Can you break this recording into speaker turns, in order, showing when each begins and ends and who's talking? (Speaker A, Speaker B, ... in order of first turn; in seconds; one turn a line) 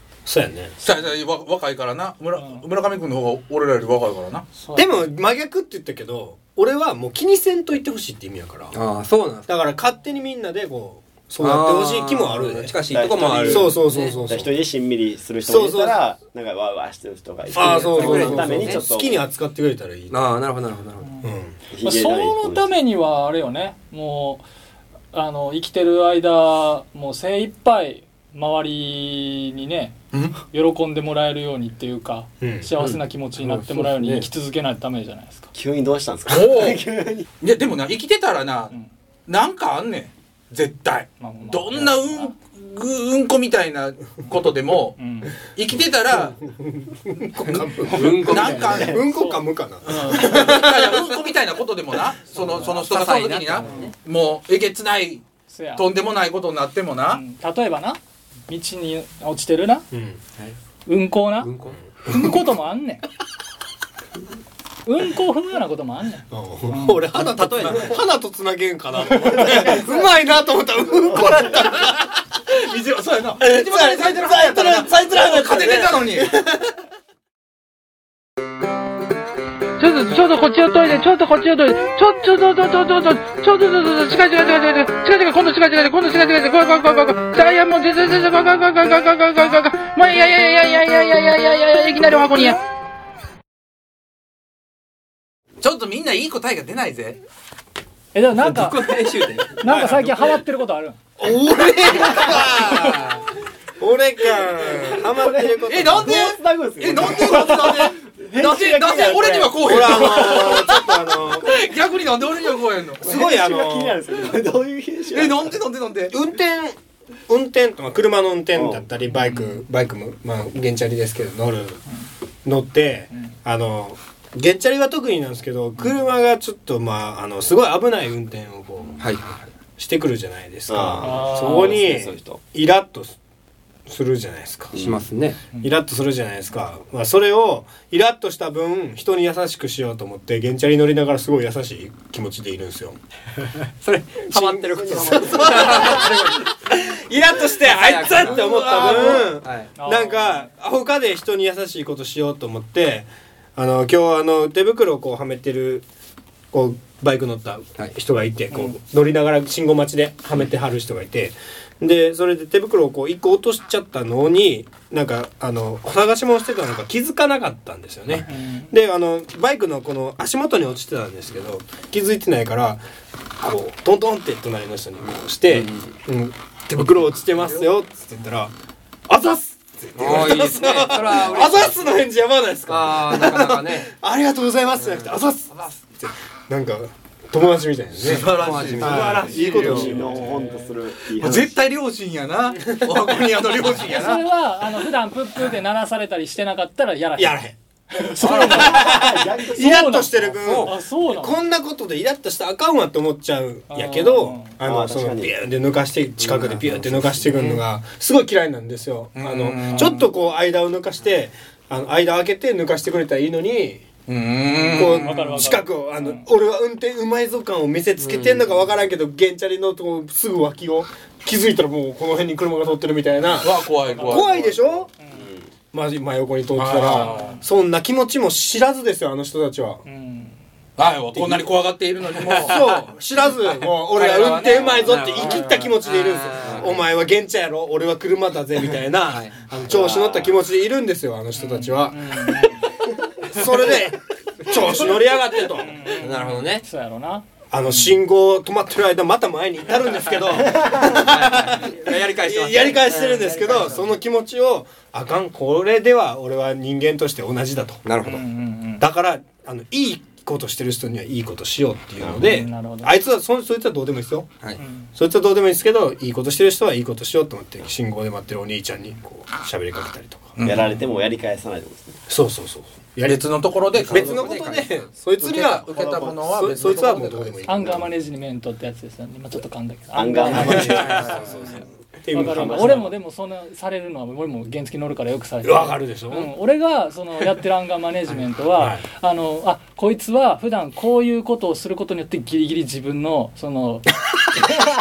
Speaker A: 0.2-0.8
Speaker B: 0.8-4.5
Speaker C: 2.4-2.6
Speaker C: 4.6-5.0
Speaker A: 4.8-8.8
Speaker D: 8.7-9.5
Speaker A: 9.5-12.8
Speaker D: 11.4-14.2
Speaker E: 12.8-19.2
Speaker A: 13.3-14.5
Speaker A: 15.4-16.0
Speaker A: 17.5-20.3
Speaker D: 17.8-18.9
Speaker D: 20.1-21.1
Speaker C: 21.0-21.3
Speaker A: 21.2-21.6
Speaker E: 21.7-22.7
Speaker C: 21.8-24.4
Speaker C: 25.1-35.5
Speaker A: 32.4-34.3
Speaker E: 35.5-37.3
Speaker B: 36.3-36.8
Speaker B: 37.4-38.8
Speaker B: 39.3-45.0
Speaker C: 41.2-42.4
Speaker C: 45.0-45.4
Speaker B: 45.5-46.4
Speaker A: 46.4-51.2
Speaker B: 47.5-49.0
Speaker D: 47.8-49.0
Speaker C: 49.1-49.5
Speaker B: 49.9-55.2
Speaker C: 52.4-52.8
Speaker D: 52.8-53.9
Speaker C: 53.6-53.9
Speaker C: 55.5-55.9
Speaker B: 55.8-57.2
Speaker C: 57.1-59.9
Speaker A: 59.9-60.2
Speaker C: 60.9-61.5
Speaker D: 61.4-61.8
Speaker C: 62.0-63.0
Speaker C: 64.9-67.1
Speaker A: 66.3-72.1
Speaker D: 67.4-68.0
Speaker C: 69.3-69.6
Speaker E: 69.4-69.9
Speaker E: 71.1-71.5
Speaker B: 72.6-76.4
Speaker A: 72.7-76.6
Speaker F: 79.8-92.6
Speaker B: 95.6-97.2
Speaker C: 98.1-98.9
Speaker D: 98.4-100.2
Speaker C: 99.6-101.0
Speaker B: 99.7-100.0
Speaker A: 101.2-103.2
Speaker B: 101.2-103.2
Speaker A: 103.8-106.2
Speaker E: 104.6-109.4
Speaker B: 105.7-113.0
Speaker A: 108.4-111.5
Speaker A: 113.0-114.0
Speaker E: 113.0-115.6
Speaker B: 115.1-116.2
Speaker A: 116.1-116.8
Speaker A: 117.3-121.8
Speaker E: 118.5-118.9
Speaker C: 119.1-119.6
Speaker A: 122.4-129.1
Speaker D: 129.0-129.5
Speaker A: 129.8-133.2
Speaker E: 130.7-132.4
Speaker C: 131.0-131.8
Speaker A: 133.9-134.7
Speaker E: 134.7-135.1
Speaker D: 134.8-135.4
Speaker A: 135.6-143.0
Speaker D: 143.8-146.3
Speaker A: 144.3-155.9
Speaker E: 144.8-146.1
Speaker D: 147.6-149.7
Speaker B: 148.4-149.2
Speaker C: 149.8-150.5
Speaker A: 156.5-172.8
Speaker C: 158.5-158.8
Speaker C: 168.3-168.7
Speaker A: 173.4-178.5
Speaker D: 175.5-175.8
Speaker A: 179.1-190.1
Speaker D: 180.0-182.0
Speaker D: 182.7-183.9
Speaker D: 184.8-185.8
Speaker B: 188.0-190.2
Speaker D: 188.3-189.5
Speaker E: 188.8-191.5
Speaker C: 189.9-190.8
Speaker B: 191.2-194.2
Speaker A: 192.8-193.1
Speaker C: 193.7-197.4
Speaker A: 197.2-213.9
Speaker C: 197.9-201.4
Speaker E: 198.2-200.4
Speaker C: 203.7-204.6
Speaker E: 204.6-205.4
Speaker E: 206.3-207.5
Speaker B: 209.2-210.1
Speaker B: 214.1-215.4
Speaker C: 214.5-216.3
Speaker A: 214.7-224.9
Speaker D: 218.0-218.5
Speaker B: 223.4-224.6
Speaker C: 223.8-224.5
Speaker E: 224.6-225.5
Speaker C: 225.0-225.3
Speaker A: 225.7-229.8
Speaker B: 226.6-227.4
Speaker C: 226.9-227.4
Speaker C: 229.8-230.4
Speaker B: 230.8-232.8
Speaker A: 231.1-231.5
Speaker D: 232.2-232.8
Speaker A: 232.4-242.5
Speaker D: 233.9-236.8
Speaker B: 234.3-235.7
Speaker D: 239.1-240.3
Speaker C: 241.4-242.8
Speaker A: 243.3-245.8
Speaker C: 245.6-248.0
Speaker D: 246.0-246.6
Speaker A: 247.5-257.8
Speaker D: 250.8-253.8
Speaker D: 257.9-258.2
Speaker C: 258.1-258.9
Speaker A: 258.8-264.3
Speaker E: 262.0-262.3
Speaker C: 262.2-262.9
Speaker C: 264.6-264.9
Speaker A: 264.9-270.4
Speaker B: 270.4-270.8
Speaker E: 270.4-272.0
Speaker A: 272.1-277.9
Speaker B: 273.1-274.3
Speaker E: 273.8-274.7
Speaker D: 273.9-274.8
Speaker E: 275.2-276.8
Speaker B: 275.2-277.4
Speaker C: 277.5-281.2
Speaker E: 279.9-281.3
Speaker A: 280.3-282.9
Speaker B: 280.4-281.5
Speaker C: 282.1-293.9
Speaker A: 285.4-286.3
Speaker A: 288.6-288.9